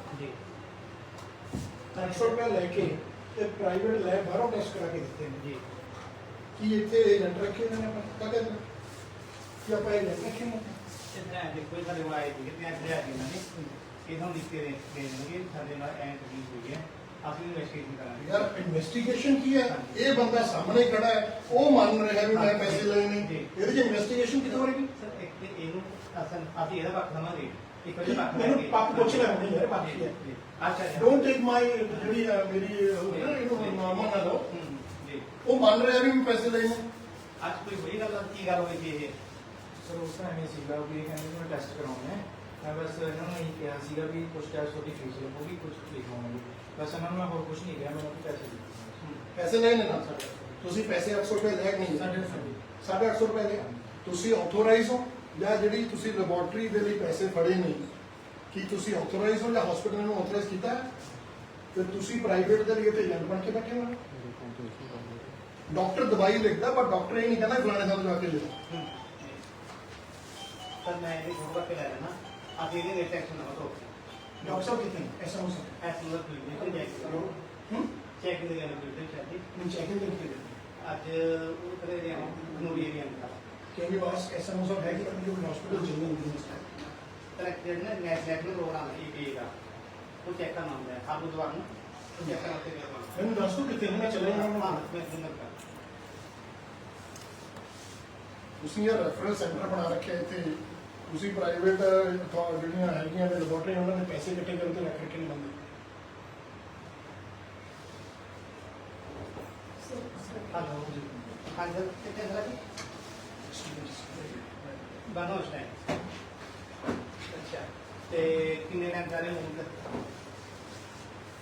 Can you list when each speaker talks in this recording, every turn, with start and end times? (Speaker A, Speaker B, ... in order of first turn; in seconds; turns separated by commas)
Speaker A: 1.9-5.4, Speaker B: 1.9-2.4, Speaker B: 5.4-5.6, Speaker A: 6.6-8.6, Speaker A: 9.6-10.8, Speaker B: 11.1-18.5, Speaker A: 18.2-24.9, Speaker B: 19.6-20.1, Speaker B: 22.3-23.5, Speaker B: 24.4-31.3, Speaker A: 28.0-30.2, Speaker A: 30.9-34.5, Speaker B: 31.9-32.1, Speaker B: 33.1-33.9, Speaker B: 34.5-35.3, Speaker A: 35.4-36.9, Speaker B: 37.4-39.1, Speaker C: 39.8-49.0, Speaker A: 49.3-50.1, Speaker C: 49.9-50.7, Speaker A: 50.6-57.9, Speaker C: 51.8-52.6, Speaker A: 58.5-60.9, Speaker A: 61.7-64.0, Speaker C: 64.1-65.3, Speaker A: 65.7-68.5, Speaker B: 68.7-69.4, Speaker B: 70.8-74.7, Speaker A: 74.4-75.8, Speaker B: 75.8-77.3, Speaker A: 76.5-77.9, Speaker B: 78.2-79.4, Speaker A: 79.5-80.6, Speaker B: 80.8-83.3, Speaker A: 82.3-82.6, Speaker A: 83.7-86.9, Speaker B: 87.4-89.5, Speaker B: 90.2-91.7, Speaker B: 92.2-93.2, Speaker A: 93.2-94.8, Speaker B: 93.8-95.5, Speaker A: 98.6-105.6, Speaker B: 110.3-110.9, Speaker A: 110.8-111.1, Speaker B: 111.5-112.6, Speaker A: 113.5-115.0, Speaker B: 115.0-115.8, Speaker B: 117.3-119.8